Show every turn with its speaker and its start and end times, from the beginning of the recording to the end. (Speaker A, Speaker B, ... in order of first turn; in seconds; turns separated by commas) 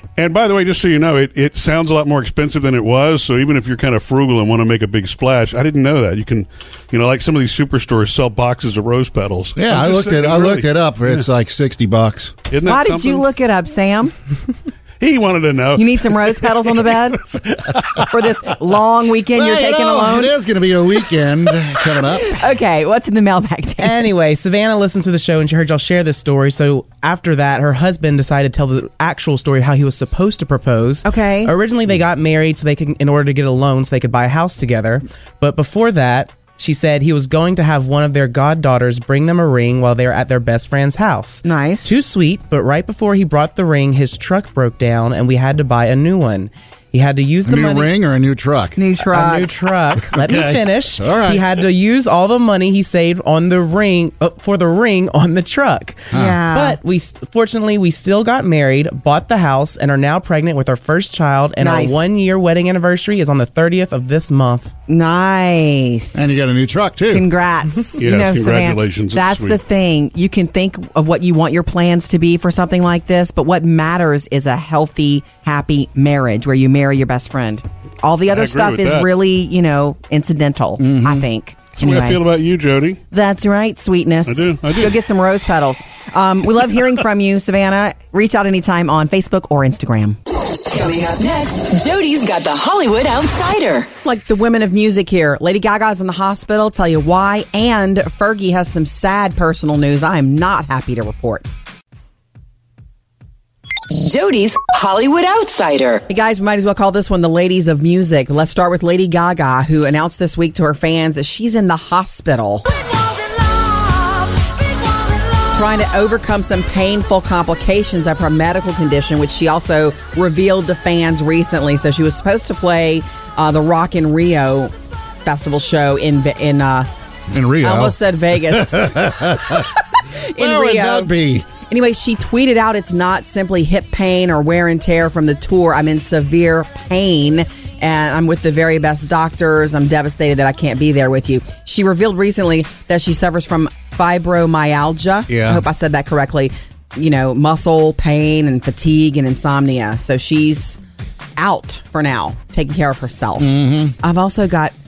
Speaker A: 0.2-11.2, Speaker B: 9.6-12.4, Speaker A: 12.5-13.2, Speaker C: 12.7-14.1, Speaker A: 15.0-18.1, Speaker C: 15.8-17.2, Speaker C: 18.0-20.3, Speaker B: 19.3-22.4, Speaker C: 22.1-24.0, Speaker D: 23.8-47.9, Speaker C: 31.0-31.5, Speaker C: 41.4-42.0, Speaker B: 47.5-48.8, Speaker C: 48.8-49.5, Speaker D: 49.1-64.7, Speaker B: 50.1-51.5, Speaker C: 56.1-56.8, Speaker B: 56.1-56.4, Speaker C: 61.6-62.0, Speaker C: 64.9-66.4, Speaker B: 66.2-67.3, Speaker C: 67.1-82.2, Speaker A: 68.0-69.6, Speaker A: 78.3-79.1, Speaker B: 80.8-81.3, Speaker A: 81.8-83.0, Speaker C: 83.1-90.2, Speaker A: 84.3-85.0, Speaker E: 90.7-93.9, Speaker C: 94.0-101.5, Speaker E: 103.9-106.0, Speaker C: 106.1-112.7, Speaker C: 115.5-124.7, Speaker C: 125.2-126.9, Speaker B: 127.3-129.7, Speaker C: 127.6-150.8, Speaker B: 130.4-131.5, Speaker B: 145.3-145.6, Speaker C: 151.4-154.7, Speaker B: 153.4-153.9